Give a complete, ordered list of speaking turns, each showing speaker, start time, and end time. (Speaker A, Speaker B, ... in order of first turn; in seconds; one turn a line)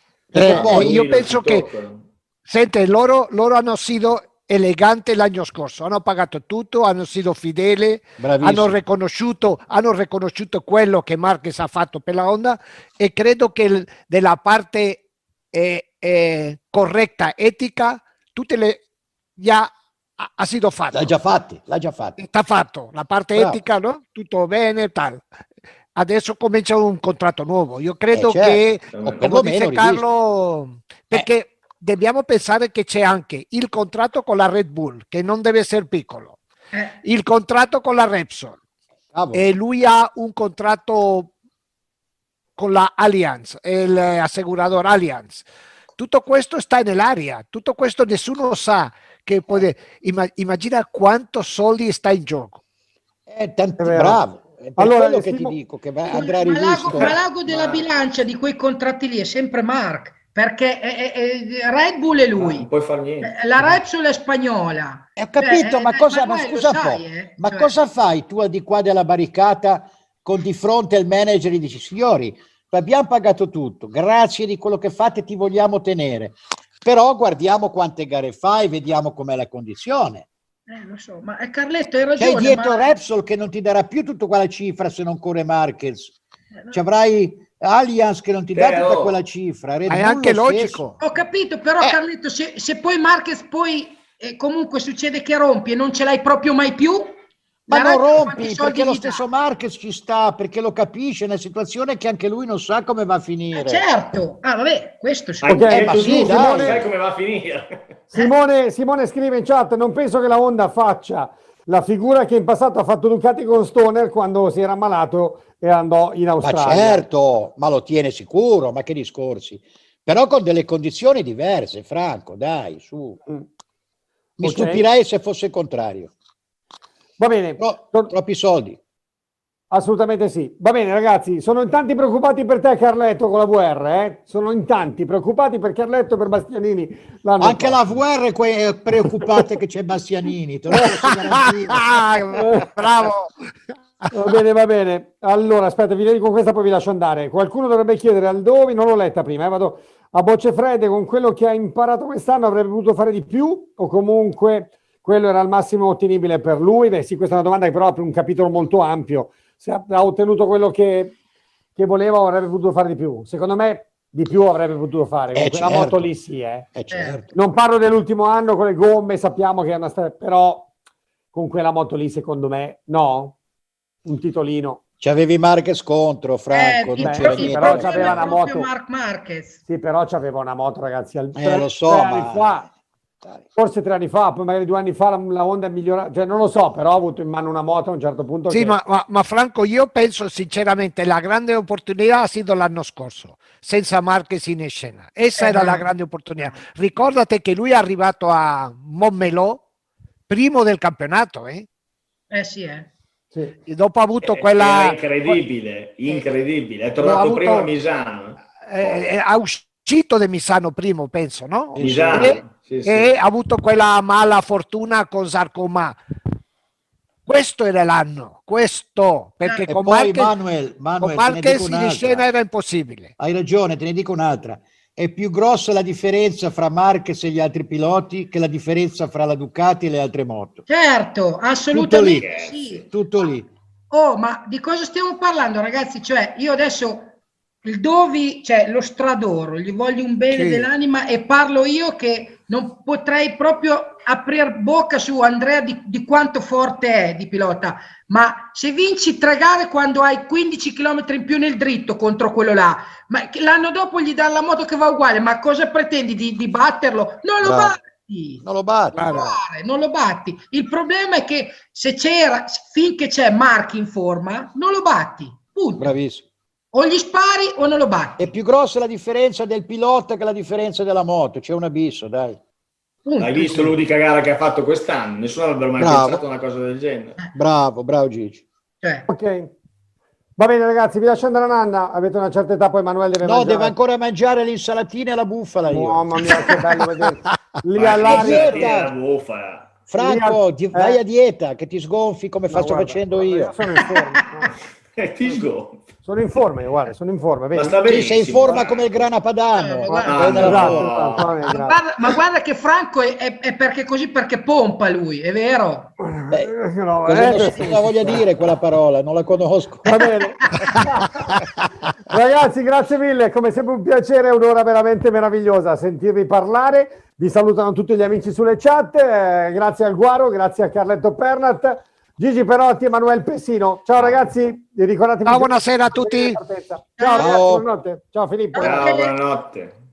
Speaker A: 0.3-2.0
Speaker B: 0.3-1.0
Speaker C: 0.3-1.7
Speaker C: 2.5-18.8
Speaker B: 8.2-8.8
Speaker C: 19.4-21.2
Speaker B: 20.9-22.2
Speaker C: 22.2-25.2
Speaker B: 23.4-23.6
Speaker C: 26.0-36.4
Speaker B: 28.1-30.0
Speaker A: 28.9-29.3
Speaker D: 36.7-37.0
Speaker C: 37.0-38.6
Speaker B: 39.1-39.5
Speaker C: 39.3-41.3
Speaker C: 42.6-45.5
Speaker C: 46.0-52.6
Speaker B: 53.3-57.2
Speaker E: 53.8-54.2
Speaker E: 54.8-55.6
Speaker D: 56.1-62.7
Speaker A: 56.9-57.8
Speaker A: 62.4-63.3
Speaker D: 63.2-67.7
Speaker B: 65.2-80.3
Speaker D: 80.7-83.0
Speaker B: 82.2-86.2
Speaker D: 86.6-86.8
Speaker B: 86.7-90.8
Speaker A: 88.5-89.2
Speaker C: 89.9-91.0
Speaker D: 91.0-97.2
Speaker B: 97.7-103.8
Speaker D: 97.7-99.2
Speaker D: 103.5-105.6
Speaker A: 105.4-107.8
Speaker E: 105.4-106.8
Speaker B: 105.7-106.8
Speaker E: 108.1-117.0
Speaker B: 116.4-123.2
Speaker B: 124.4-126.1
Speaker E: 124.4-124.8
Speaker E: 127.2-128.1
Speaker B: 127.6-128.8
Speaker E: 129.7-137.8
Speaker B: 137.4-142.0
Speaker C: 140.8-143.3
Speaker E: 142.4-142.7
Speaker E: 144.1-161.1
Speaker E: 161.8-166.7
Speaker B: 165.3-166.1
Speaker B: 166.7-167.3
Speaker D: 166.9-167.2
Speaker E: 167.3-170.7
Speaker E: 171.3-173.4
Speaker E: 174.1-174.8
Speaker B: 175.0-178.3
Speaker D: 176.5-179.6
Speaker E: 177.0-178.7
Speaker E: 179.7-182.7
Speaker B: 181.3-182.7
Speaker E: 183.6-188.8
Speaker C: 188.5-199.6
Speaker D: 195.4-195.9
Speaker C: 200.3-201.7
Speaker D: 202.3-202.9
Speaker C: 203.7-205.4
Speaker A: 204.2-209.0
Speaker C: 207.0-207.7
Speaker C: 208.7-216.0
Speaker B: 211.8-212.4
Speaker A: 211.8-213.1
Speaker C: 217.3-220.3
Speaker D: 219.4-219.7
Speaker B: 219.7-222.3
Speaker C: 221.0-223.1
Speaker B: 223.2-230.6
Speaker D: 230.7-232.9
Speaker B: 231.7-233.5
Speaker A: 232.1-232.6
Speaker D: 233.9-237.1
Speaker D: 237.6-258.4
Speaker C: 240.3-240.7
Speaker B: 257.4-257.8
Speaker B: 258.4-259.2
Speaker C: 259.0-259.4
Speaker D: 259.0-265.9
Speaker B: 265.8-266.3
Speaker D: 266.7-268.3
Speaker B: 268.2-272.4
Speaker D: 273.1-273.7
Speaker A: 273.2-277.2
Speaker B: 275.8-276.2
Speaker B: 277.3-278.4
Speaker D: 278.8-279.1
Speaker E: 279.1-279.5
Speaker E: 280.4-283.7
Speaker B: 283.2-286.0
Speaker E: 285.7-288.9
Speaker C: 287.3-287.6
Speaker A: 287.8-289.7
Speaker B: 288.1-288.9
Speaker B: 289.9-293.6
Speaker E: 290.0-291.0
Speaker E: 292.5-294.5
Speaker A: 295.0-295.8
Speaker E: 296.1-297.8
Speaker A: 297.5-299.1
Speaker B: 297.9-301.0
Speaker D: 299.6-300.6
Speaker E: 299.9-301.8
Speaker A: 300.1-301.3
Speaker D: 301.5-305.9
Speaker E: 306.1-308.2
Speaker B: 307.1-310.0
Speaker E: 309.9-311.4
Speaker E: 312.1-328.9
Speaker C: 325.2-326.4
Speaker D: 327.0-327.4
Speaker B: 327.2-327.7
Speaker D: 328.5-329.1
Speaker A: 328.6-329.7